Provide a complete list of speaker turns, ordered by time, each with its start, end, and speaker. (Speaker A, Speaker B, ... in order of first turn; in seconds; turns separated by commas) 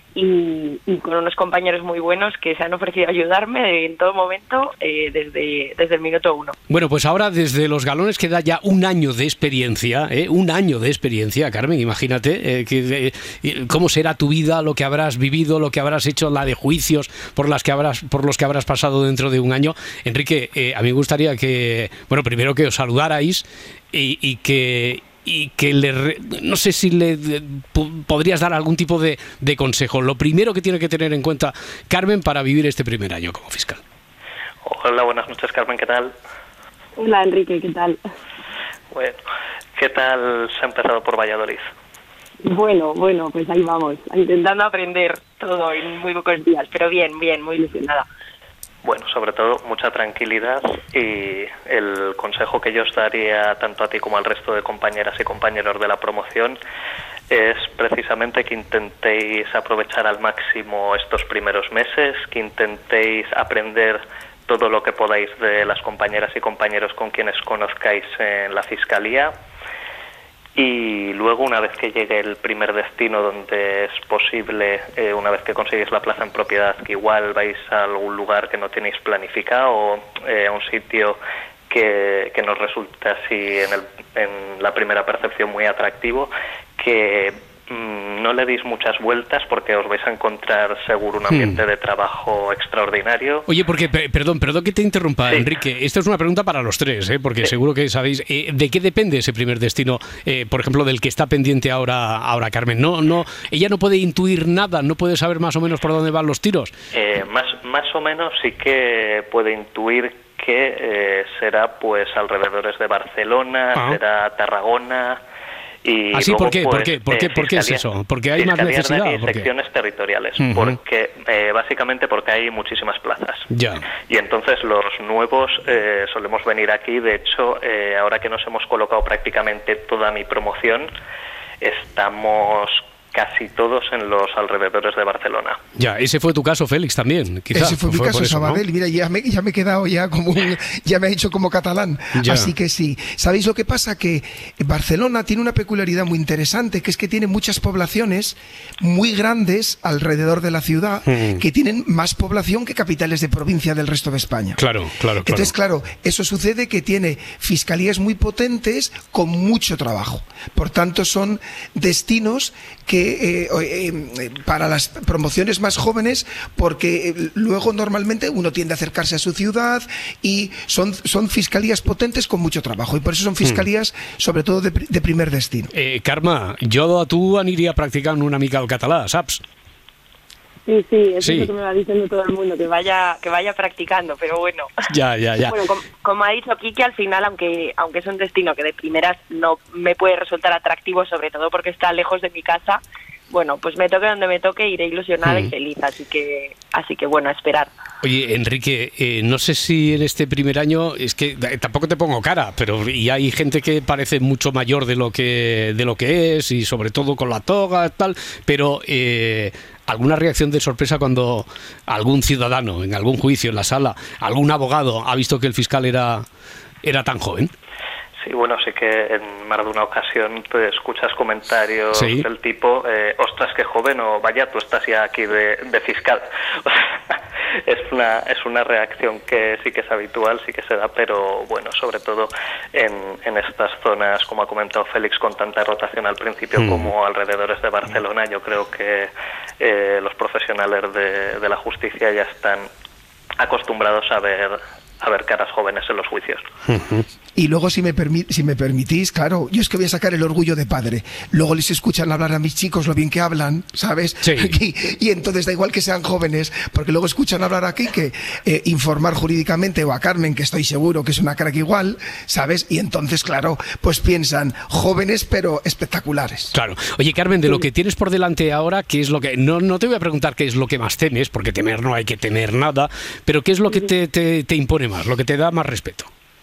Speaker A: 0.1-6.5, Speaker B: 6.7-33.8, Speaker C: 34.6-36.1, Speaker A: 37.0-38.0, Speaker C: 38.9-39.2, Speaker C: 39.8-41.7, Speaker A: 42.4-48.1, Speaker C: 48.8-56.6, Speaker C: 57.3-69.3, Speaker C: 70.6-81.2, Speaker C: 81.7-93.5, Speaker B: 91.3-91.6, Speaker B: 93.5-106.7, Speaker C: 106.9-115.2, Speaker C: 115.8-123.5, Speaker B: 116.1-119.5, Speaker B: 120.4-120.8, Speaker B: 123.5-123.8, Speaker C: 124.1-130.9, Speaker C: 131.6-135.6, Speaker B: 135.8-138.6, Speaker D: 137.5-154.6, Speaker B: 142.2-142.5, Speaker B: 151.1-151.4, Speaker B: 154.6-155.5, Speaker D: 155.2-175.7, Speaker B: 175.8-179.4, Speaker A: 180.7-184.8, Speaker B: 181.2-181.5, Speaker B: 184.9-185.6, Speaker A: 185.4-197.7, Speaker B: 195.2-195.5, Speaker B: 198.0-216.3, Speaker B: 216.8-217.5, Speaker C: 218.2-227.1, Speaker B: 221.9-222.2, Speaker C: 227.7-242.7, Speaker B: 236.6-236.9, Speaker C: 243.4-246.4, Speaker B: 246.7-247.1, Speaker D: 247.4-266.6, Speaker B: 254.2-254.5, Speaker B: 266.5-276.1